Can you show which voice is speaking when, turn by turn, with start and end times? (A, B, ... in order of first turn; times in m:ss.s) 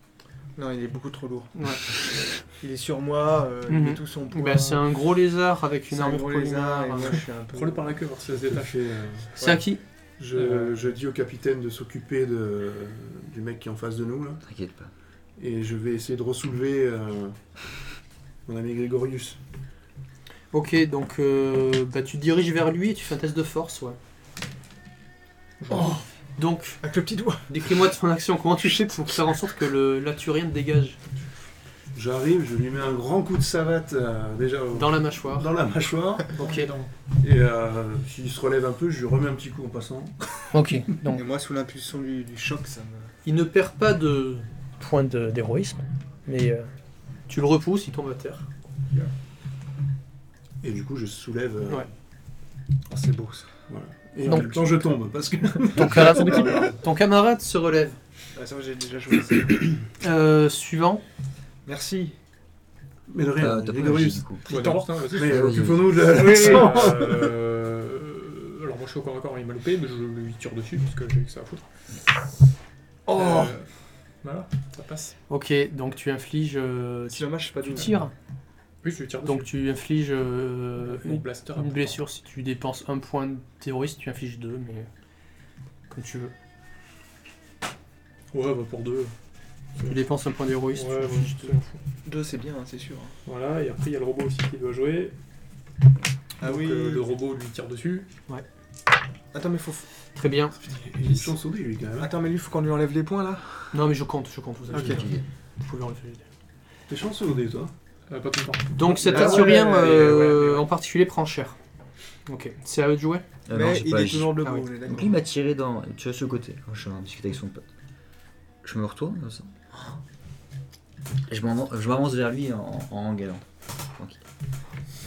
0:00.6-0:04.9 A
0:01.6-0:01.9 B
0:03.7-0:07.2 B
0:05.9-0:08.0 A
0:07.1-0:08.8 C
0:08.4-0:09.6 D
0:09.4-0:09.8 B
0:10.2-0:14.4 D
0:10.3-0:10.8 C
0:14.5-0:14.9 E
0:15.4-0:17.4 D
0:18.5-0:19.4 D
0:20.5-0:24.0 B
0:25.6-0:26.0 C
0:25.7-0:26.0 A
0:26.4-0:26.8 B
0:26.8-0:27.5 A
0:27.5-0:31.0 B
0:28.6-0:29.6 A
0:31.9-0:36.4 D
0:34.7-0:35.5 B
0:36.3-0:36.9 C
0:36.4-0:36.7 B
0:37.2-0:40.6 D
0:40.5-0:41.2 B
0:41.1-0:43.1 A
0:43.2-0:46.7 B
0:47.3-0:48.5 B
0:50.6-0:51.9 D
0:52.9-0:53.6 A
0:53.7-0:56.7 D
0:54.2-0:54.7 B
0:55.6-0:58.0 B
0:58.3-0:59.7 A
1:00.0-1:01.0 B
1:01.7-1:02.2 A
1:03.1-1:07.3 D
1:03.4-1:06.1 E
1:04.4-1:11.7 C
1:06.1-1:07.1 A
1:13.1-1:13.6 C
1:13.2-1:13.5 D
1:14.2-1:15.2 C
1:15.3-1:18.1 B
1:17.1-1:18.0 A
1:18.8-1:19.5 C
1:19.2-1:24.9 B
1:20.8-1:22.0 C
1:25.9-1:26.3 B
1:28.3-1:29.1 C
1:29.8-1:30.0 C
1:29.8-1:31.6 B
1:30.7-1:31.8 C
1:32.0-1:33.2 A
1:33.3-1:35.2 C
1:36.4-1:37.0 A
1:36.4-1:38.1 C
1:39.3-1:39.8 A
1:40.2-1:40.6 B
1:40.6-1:41.4 C
1:40.9-1:42.1 D
1:42.0-1:43.8 A
1:43.7-1:46.2 B
1:44.7-1:45.1 A
1:44.8-1:45.2 E
1:46.9-1:47.7 D
1:48.1-1:50.7 C
1:48.7-1:51.6 B
1:49.0-1:50.2 A
1:52.3-1:53.2 B
1:53.5-1:57.6 E
1:53.5-1:55.2 A
1:58.6-1:59.5 E
2:01.3-2:03.4 E